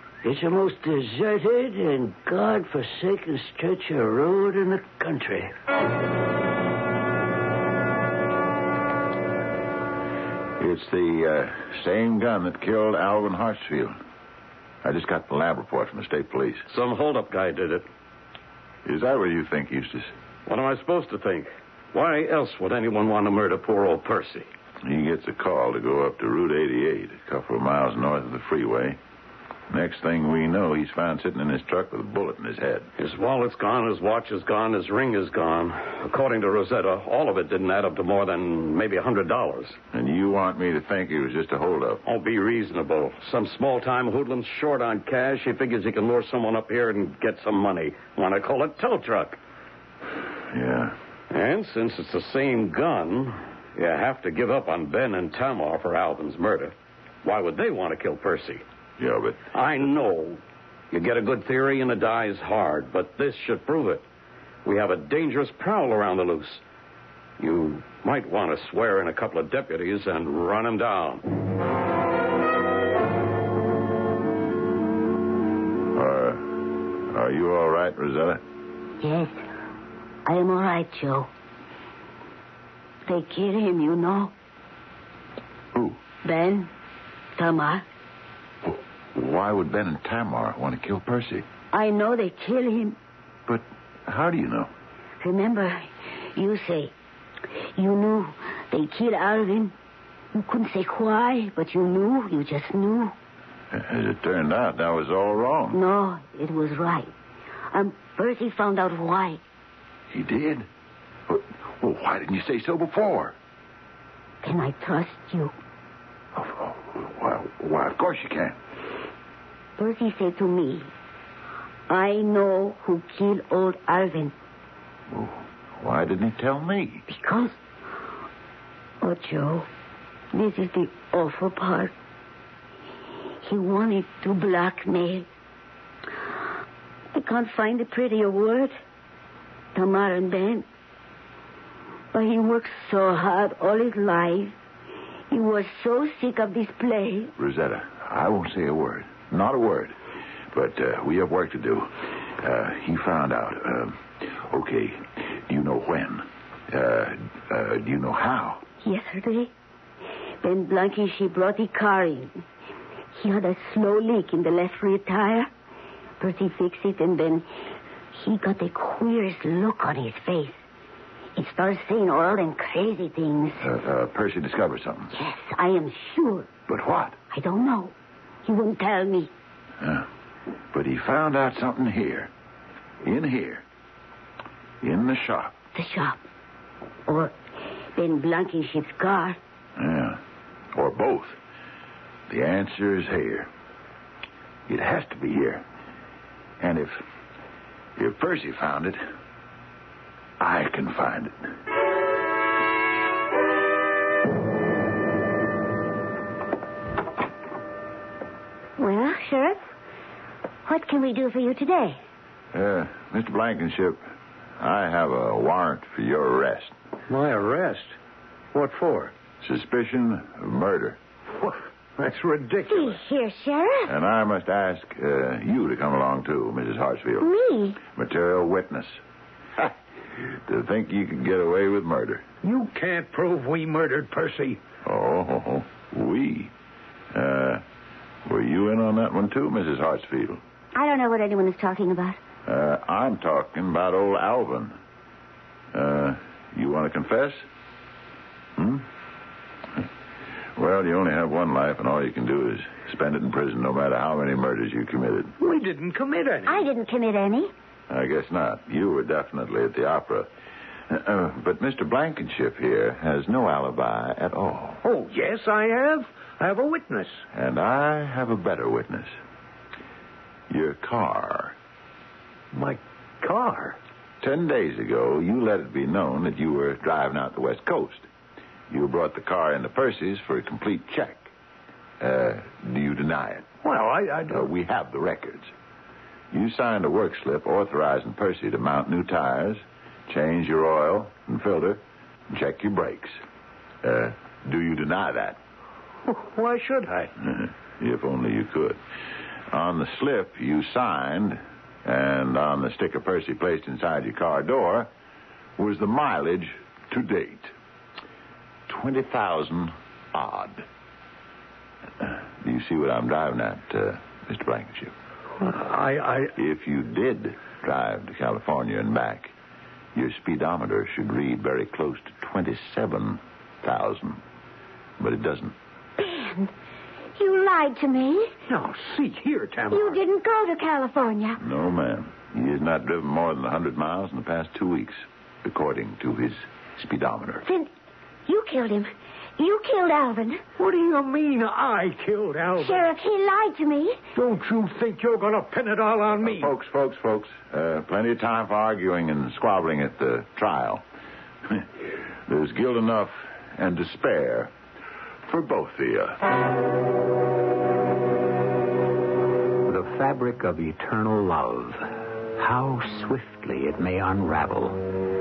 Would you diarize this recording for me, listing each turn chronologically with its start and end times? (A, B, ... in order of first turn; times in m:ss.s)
0:00.2-0:05.5 A
0:10.6-0:14.0 B
0:14.8-0:16.6 B
0:16.7-0:17.9 C
0:18.9-0:20.1 B
0:20.5-0:24.5 C
0:24.8-0:29.0 B
0:29.7-0:32.9 B
0:33.0-0:39.8 C
0:39.9-0:42.0 B
0:42.0-0:49.4 C
0:50.5-0:51.0 B
0:51.3-0:56.7 C
0:57.2-0:58.6 C
0:59.0-0:59.5 B
0:59.5-1:04.0 C
1:04.6-1:06.6 C
1:07.4-1:11.2 C
1:16.0-1:18.4 B
1:19.0-1:19.4 D
1:20.2-1:21.3 D
1:23.1-1:24.3 D
1:25.7-1:26.0 B
1:26.2-1:26.7 D
1:27.4-1:27.8 D
1:28.7-1:31.4 B
1:31.7-1:33.0 D
1:33.5-1:34.7 B
1:35.2-1:36.9 D
1:37.6-1:39.7 D
1:40.3-1:43.1 D
1:43.7-1:45.8 B
1:45.7-1:47.1 D
1:47.7-1:49.4 D
1:50.1-1:50.7 B
1:51.3-1:53.3 B
1:54.4-1:55.5 D
1:56.4-1:58.6 B
1:59.8-2:00.9 D
2:01.9-2:04.3 D
2:05.1-2:07.0 B
2:07.1-2:07.6 D
2:09.0-2:09.7 D
2:10.3-2:11.9 D
2:13.4-2:15.3 D
2:17.1-2:18.8 D
2:19.8-2:20.6 D
2:22.1-2:24.6 D
2:25.3-2:27.3 D
2:27.4-2:29.9 B
2:30.5-2:38.6 B
2:38.8-2:39.5 D
2:40.4-2:42.4 D
2:43.2-2:45.5 D
2:46.2-2:47.5 D
2:48.1-2:50.6 D
2:51.4-2:53.6 D
2:53.6-2:55.1 B
2:55.1-2:56.5 D
2:56.7-2:57.2 B
2:57.3-2:57.9 D
2:58.5-2:59.3 D
2:59.8-3:00.1 B
3:00.7-3:02.3 B
3:03.0-3:03.6 B
3:04.8-3:05.5 B
3:05.8-3:06.2 D
3:07.1-3:07.3 D
3:08.0-3:09.4 D
3:09.8-3:10.2 B
3:10.7-3:11.4 B
3:12.3-3:13.5 B
3:14.7-3:15.6 B
3:16.6-3:17.0 B
3:18.0-3:19.0 B
3:20.4-3:21.4 B
3:28.8-3:29.6 D
3:30.7-3:32.0 D
3:32.5-3:34.0 B
3:34.6-3:36.7 B
3:37.1-3:38.0 E
3:38.5-3:39.1 E
3:39.4-3:41.0 B
3:41.4-3:43.0 E
3:42.7-3:43.9 D
3:43.9-3:47.3 B
3:47.2-3:47.8 D
3:47.9-3:49.0 B
3:50.5-3:52.2 B
3:52.4-3:54.6 E
3:54.8-3:56.5 B
3:57.1-3:57.6 B
3:58.3-4:00.4 B
4:00.8-4:02.2 D
4:02.5-4:04.7 B
4:05.7-4:07.4 B
4:08.6-4:08.8 B
4:10.6-4:15.3 B
4:15.4-4:16.6 E
4:16.4-4:17.5 D
4:17.9-4:20.3 B
4:20.9-4:24.8 B
4:24.8-4:27.2 E
4:27.3-4:29.1 B
4:30.5-4:31.5 B
4:32.5-4:33.8 E
4:34.2-4:38.1 B
4:38.7-4:41.3 B
4:42.0-4:43.5 B
4:43.6-4:44.5 E
4:44.3-4:45.5 B
4:46.3-4:53.1 B
4:53.8-4:55.4 B
4:56.1-4:57.1 E
4:57.2-4:58.8 B
4:59.5-5:04.9 B
5:05.6-5:07.5 B
5:08.7-5:10.6 B
5:12.0-5:14.9 B
5:15.4-5:16.3 E
5:16.4-5:19.3 B
5:20.0-5:24.2 B
5:25.0-5:25.5 B
5:26.0-5:26.5 D
5:27.2-5:28.3 D
5:28.5-5:30.0 E
5:29.7-5:31.4 D
5:31.4-5:37.4 B
5:37.4-5:37.7 D
5:38.3-5:40.4 D
5:40.6-5:42.9 E
5:42.6-5:44.0 D
5:44.1-5:46.5 E
5:46.2-5:50.8 B
5:52.3-5:54.5 B
5:55.3-5:56.3 B
5:59.6-6:05.0 F